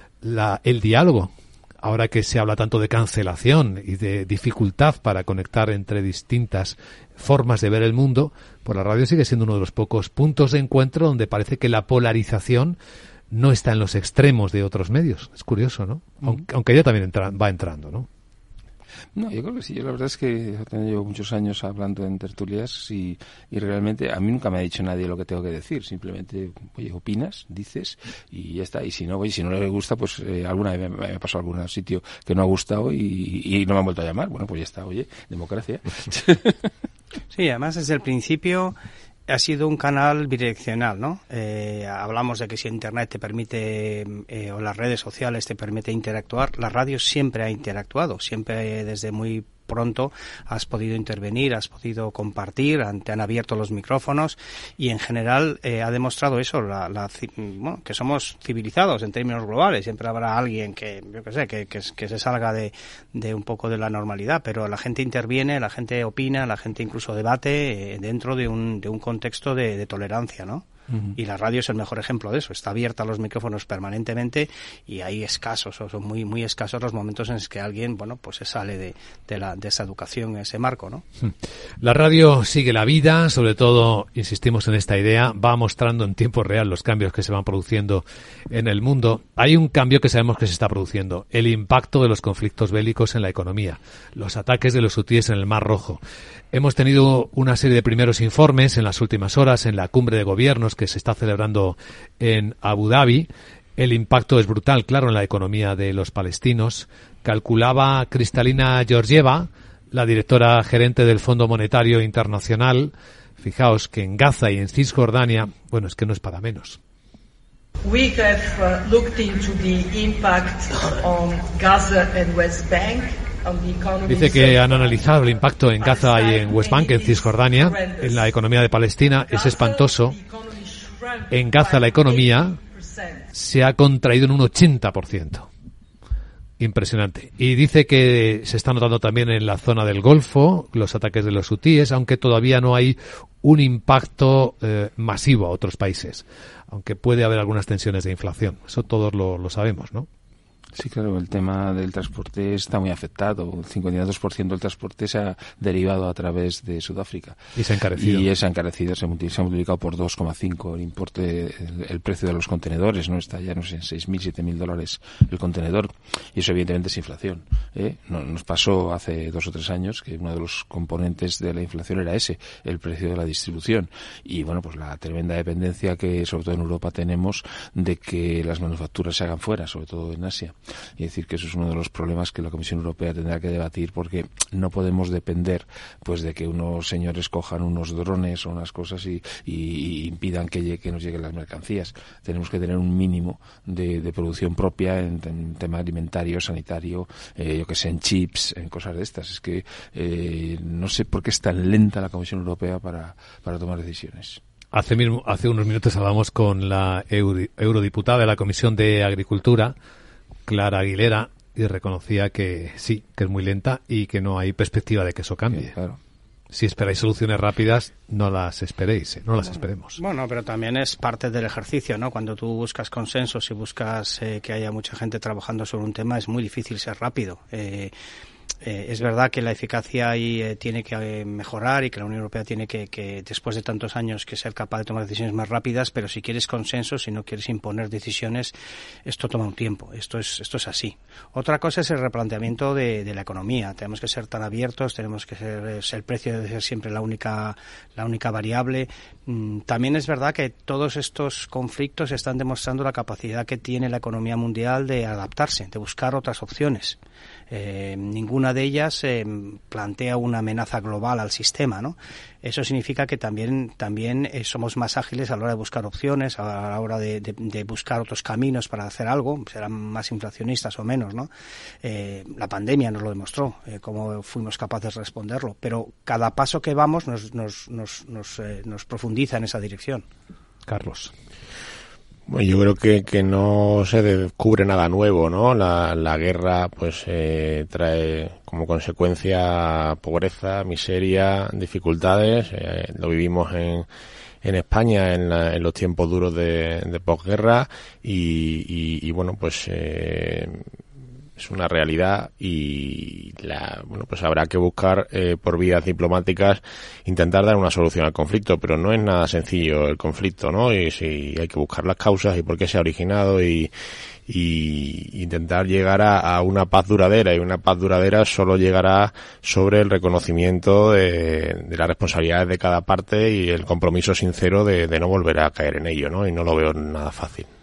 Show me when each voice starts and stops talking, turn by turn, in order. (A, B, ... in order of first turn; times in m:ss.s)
0:00.2-0:12.8 A
0:13.3-0:18.1 A
0:19.2-0:36.5 B
0:37.3-0:38.8 C
0:39.3-1:10.7 C
1:11.2-1:21.0 C
1:21.2-1:36.0 A
1:36.5-1:56.8 A
1:57.8-2:05.0 D
2:04.1-2:10.2 A
2:05.8-2:08.3 D
2:09.2-2:13.2 D
2:11.3-2:12.6 A
2:13.3-2:15.5 A
2:16.6-2:30.1 A
2:30.8-2:37.4 B
2:37.6-2:38.3 A
2:38.0-3:24.4 B
3:24.7-3:29.7 A
3:30.5-3:35.8 A
3:35.5-3:36.0 B
3:36.5-3:40.0 A
3:40.0-3:47.9 C
3:48.6-3:58.5 C
3:59.1-4:17.0 C
4:17.5-4:31.3 C
4:31.8-4:40.0 C
4:40.7-4:41.1 A
4:42.3-4:53.9 E
4:54.4-5:00.6 E
5:01.4-5:13.7 E
5:14.3-5:27.5 E